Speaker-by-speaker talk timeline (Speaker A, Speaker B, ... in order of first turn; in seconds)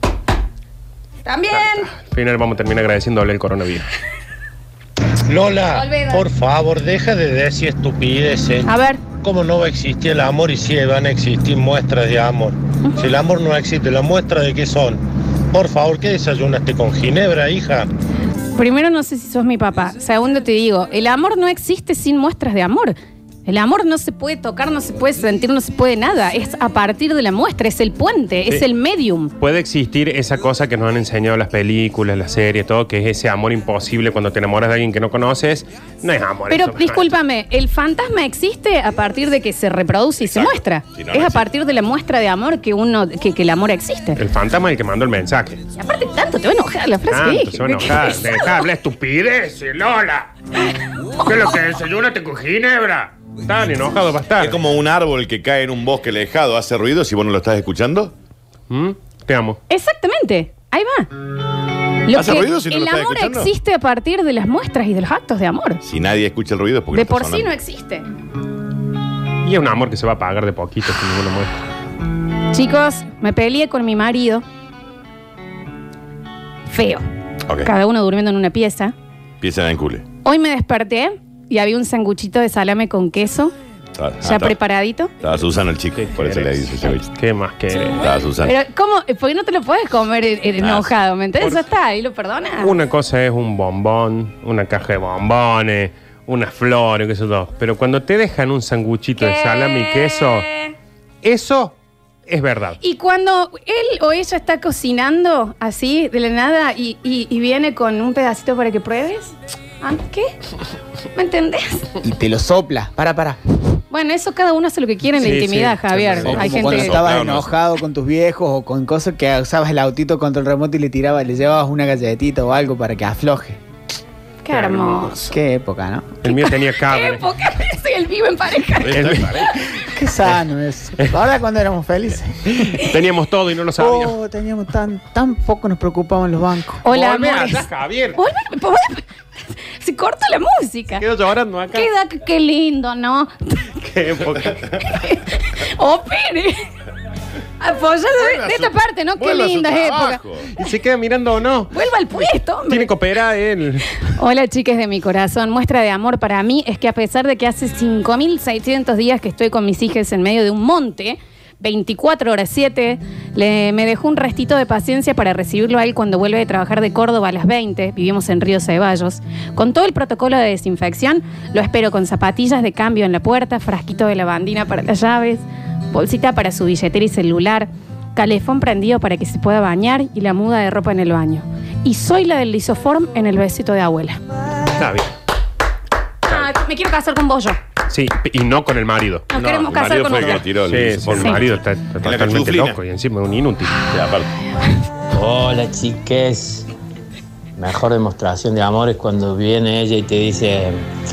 Speaker A: 1.2-1.9, 5.6-6.3, 8.6-9.0, 18.6-29.3, 36.5-44.2, 45.8-48.5, 59.7-61.1, 62.1-65.8, 66.9-68.1, 72.5-74.5, 76.7-77.0, 77.6-78.9, 80.2-83.5, 84.2-85.1, 88.4-92.8, 99.2-100.7, 102.8-110.3, 111.2-112.0, 113.9-117.0, 124.4-125.4, 126.2-129.7, 136.8-141.0, 141.7-143.9, 144.8-146.7, 147.6-150.2, 151.7-152.9, 154.1-184.2, 186.3-187.6, 189.3-190.5, 191.2-191.4
Speaker B: 1.5-3.9, 29.4-37.1, 44.2-45.6, 47.1-50.3, 51.2-54.6, 58.7-59.6, 69.4-71.6, 86.0-88.1, 92.6-100.5, 101.2-101.7, 102.3-102.8, 115.2-116.7, 124.5-125.1, 126.2-127.2, 128.9-129.5, 132.7-134.2, 136.9-138.2, 141.0-141.9, 143.9-144.7, 150.5-151.7, 152.7-153.9, 184.8-185.1, 187.9-189.3, 190.2-193.8
Speaker C: 5.3-17.9
Speaker D: 40.2-41.5, 54.4-58.1, 62.1-63.5, 65.8-67.5, 79.4-80.0, 84.0-84.6, 85.2-87.1, 88.0-88.6, 90.6-90.9, 116.3-117.5, 128.8-129.6, 148.2-150.5, 189.3-192.8, 193.8-194.3
Speaker E: 112.0-113.4, 116.2-123.6, 125.3-126.1, 129.9-132.8, 133.8-136.8
Speaker F: 195.1-196.7, 197.6-200.8